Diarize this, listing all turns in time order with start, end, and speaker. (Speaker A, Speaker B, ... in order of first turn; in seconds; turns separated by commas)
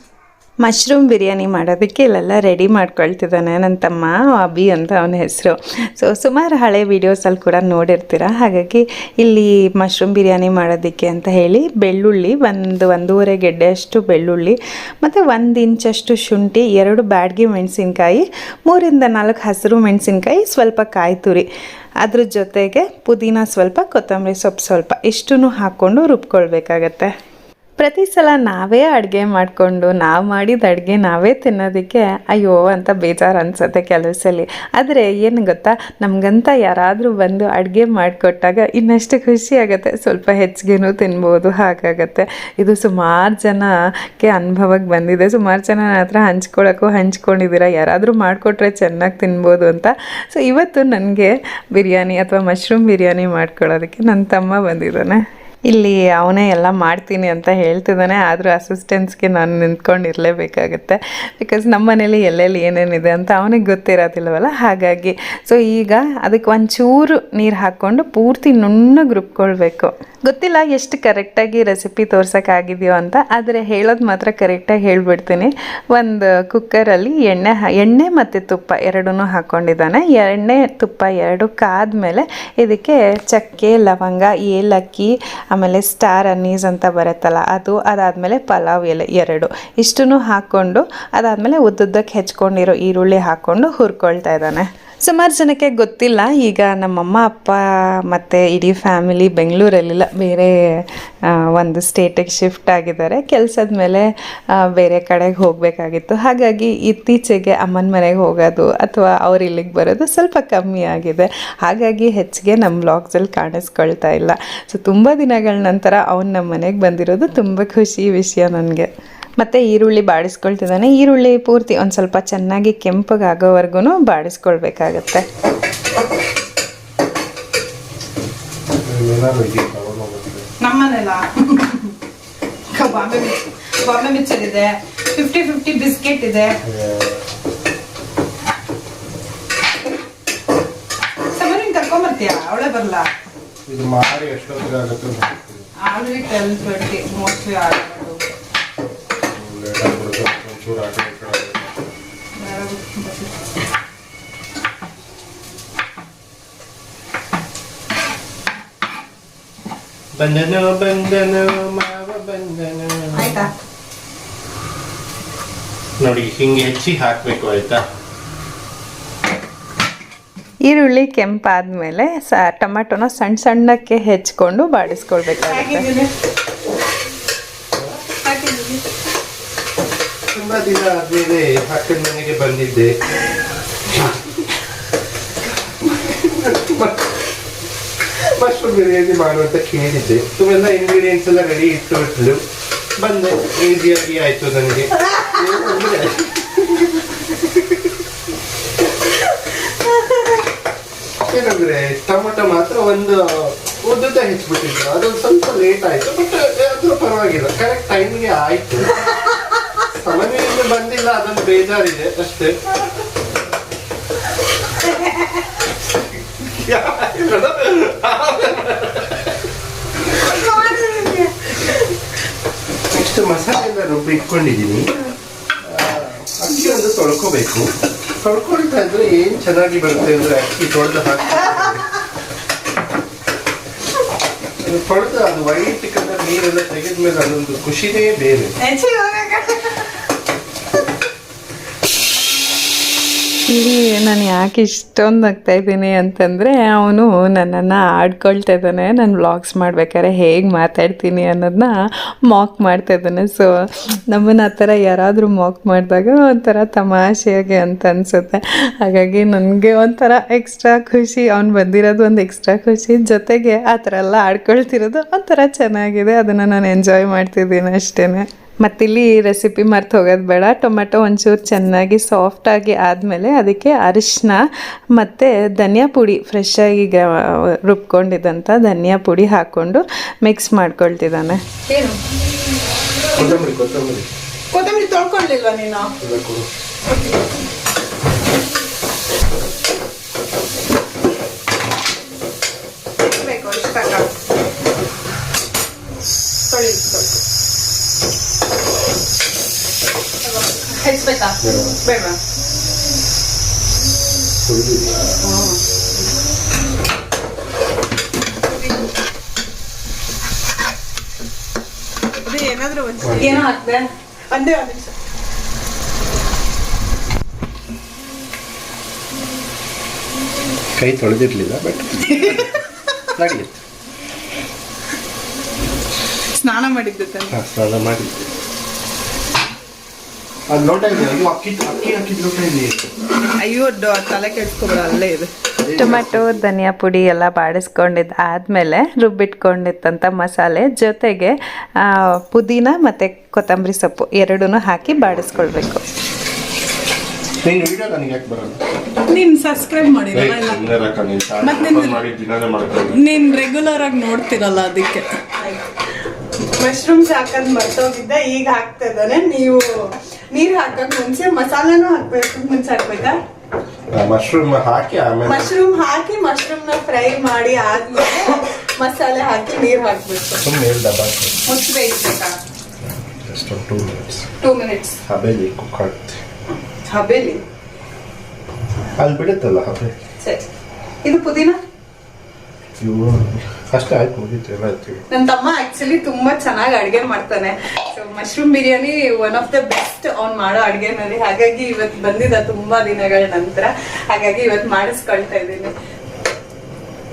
Speaker A: 0.6-21.4, Speaker A: 22.0-27.1, Speaker A: 27.8-100.8, Speaker A: 101.4-125.3, Speaker B: 128.8-130.4, Speaker C: 130.6-131.9, Speaker C: 132.7-136.6, Speaker B: 136.6-137.2, Speaker C: 141.3-143.1, Speaker B: 143.7-145.7, Speaker C: 145.8-148.3, Speaker B: 149.3-151.8, Speaker C: 152.4-153.3, Speaker B: 160.1-163.4, Speaker C: 163.2-163.5, Speaker B: 166.0-167.8, Speaker A: 170.7-175.9, Speaker C: 175.4-176.1, Speaker C: 178.2-178.8, Speaker B: 180.3-183.0, Speaker B: 183.9-184.2, Speaker B: 185.8-187.1, Speaker B: 188.2-192.4, Speaker B: 193.0-197.8, Speaker B: 201.2-209.1, Speaker B: 209.9-212.6, Speaker B: 216.4-219.3, Speaker C: 220.2-221.8, Speaker B: 222.9-225.0, Speaker B: 225.6-227.7, Speaker B: 228.2-231.8, Speaker B: 234.6-238.5, Speaker C: 238.6-240.0, Speaker A: 243.5-251.7, Speaker A: 252.3-274.4, Speaker A: 275.0-281.4, Speaker C: 281.7-282.0, Speaker B: 283.1-284.1, Speaker C: 284.5-285.9, Speaker B: 286.0-286.5, Speaker C: 286.9-287.2, Speaker C: 293.0-294.1, Speaker C: 296.5-297.2, Speaker C: 300.2-302.2, Speaker B: 301.4-301.8, Speaker B: 304.4-305.2, Speaker C: 305.2-305.6, Speaker C: 312.2-314.9, Speaker B: 313.0-313.4, Speaker B: 320.8-322.6, Speaker C: 322.1-323.0, Speaker B: 323.2-323.6, Speaker C: 326.3-327.4, Speaker B: 327.3-328.3, Speaker B: 330.5-332.9, Speaker C: 333.2-335.3, Speaker B: 335.6-336.4, Speaker A: 335.7-345.8, Speaker B: 347.4-348.6, Speaker C: 349.1-350.6, Speaker B: 350.1-353.0, Speaker C: 351.4-352.0, Speaker C: 352.9-355.6, Speaker C: 356.4-363.2, Speaker B: 363.9-365.5, Speaker C: 365.2-370.4, Speaker B: 370.4-371.4, Speaker C: 371.5-372.4, Speaker B: 373.2-374.3, Speaker C: 374.4-375.0, Speaker B: 375.1-376.2, Speaker C: 376.9-377.4, Speaker B: 379.0-379.9, Speaker C: 381.0-381.6, Speaker B: 382.8-385.0, Speaker C: 385.1-395.7